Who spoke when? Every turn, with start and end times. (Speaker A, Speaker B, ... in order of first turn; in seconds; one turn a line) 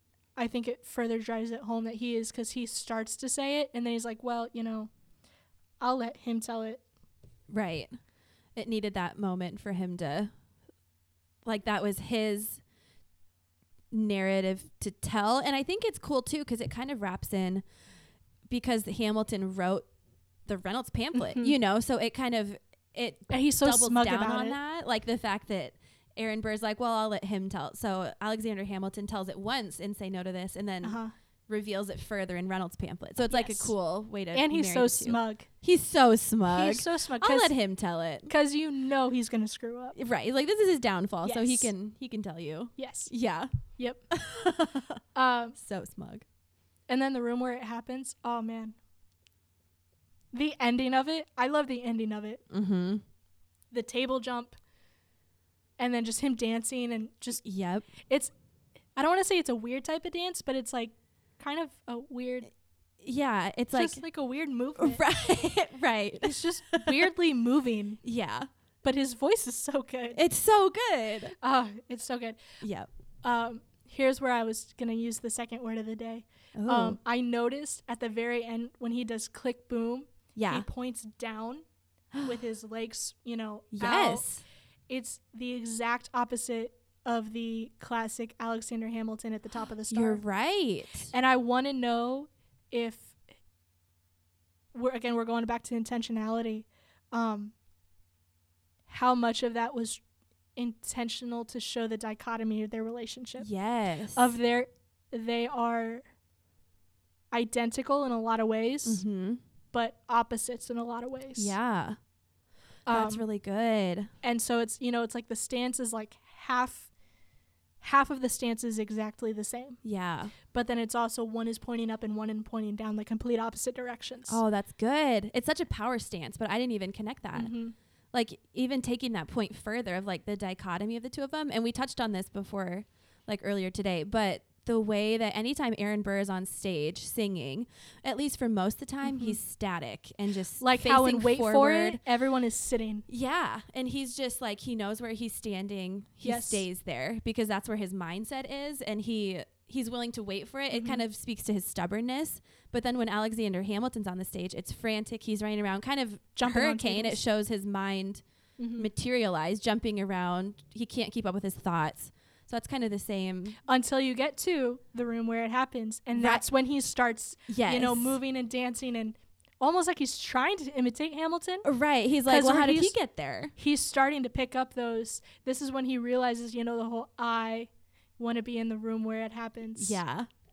Speaker A: 0.3-4.9
Speaker A: 5.8-6.8
Speaker B: 7.5-7.9
Speaker B: 8.5-10.3
Speaker B: 11.4-12.6
Speaker B: 13.9-17.6
Speaker B: 18.5-19.9
Speaker B: 20.4-38.3
Speaker A: 21.1-21.5
Speaker A: 23.3-24.6
Speaker A: 30.8-31.1
Speaker A: 33.3-33.7
Speaker A: 34.3-35.5
Speaker A: 36.5-37.5
Speaker A: 38.3-40.0
Speaker B: 40.0-43.5
Speaker A: 41.2-41.7
Speaker A: 42.8-43.1
Speaker A: 43.8-44.0
Speaker B: 44.1-45.0
Speaker A: 45.1-45.5
Speaker B: 45.5-46.2
Speaker A: 46.9-48.8
Speaker A: 50.3-52.4
Speaker B: 52.5-53.0
Speaker A: 53.7-54.5
Speaker A: 55.8-57.4
Speaker B: 57.4-57.9
Speaker A: 58.0-58.3
Speaker A: 59.0-62.5
Speaker B: 63.0-64.0
Speaker A: 63.7-65.0
Speaker B: 64.8-67.0
Speaker A: 66.2-68.0
Speaker B: 68.0-68.5
Speaker A: 68.8-70.2
Speaker B: 70.1-71.3
Speaker A: 71.4-72.4
Speaker B: 72.6-72.9
Speaker A: 73.2-81.6
Speaker B: 76.5-77.0
Speaker B: 80.3-80.7
Speaker B: 82.1-82.4
Speaker A: 82.2-84.3
Speaker B: 83.7-84.4
Speaker A: 84.9-90.2
Speaker B: 89.9-91.1
Speaker A: 91.1-93.2
Speaker A: 94.7-97.5
Speaker A: 98.9-100.0
Speaker A: 100.5-103.5
Speaker B: 103.4-104.3
Speaker A: 104.1-106.0
Speaker A: 107.3-109.0
Speaker B: 108.8-109.4
Speaker A: 109.7-111.5
Speaker B: 111.3-112.0
Speaker A: 112.9-113.2
Speaker B: 112.9-114.1
Speaker A: 114.2-116.9
Speaker A: 117.8-119.8
Speaker B: 119.8-120.3
Speaker A: 120.4-124.4
Speaker B: 124.3-127.5
Speaker A: 127.3-127.7
Speaker B: 128.1-142.0
Speaker A: 139.0-139.4
Speaker A: 140.6-143.1
Speaker B: 143.1-158.2
Speaker A: 146.2-146.6
Speaker A: 150.7-151.0
Speaker A: 156.3-157.2
Speaker A: 158.6-158.9
Speaker B: 158.8-163.6
Speaker A: 163.7-171.7
Speaker B: 166.1-166.4
Speaker B: 167.5-168.2
Speaker B: 171.6-173.5
Speaker A: 172.2-172.9
Speaker A: 173.5-180.0
Speaker B: 179.8-180.3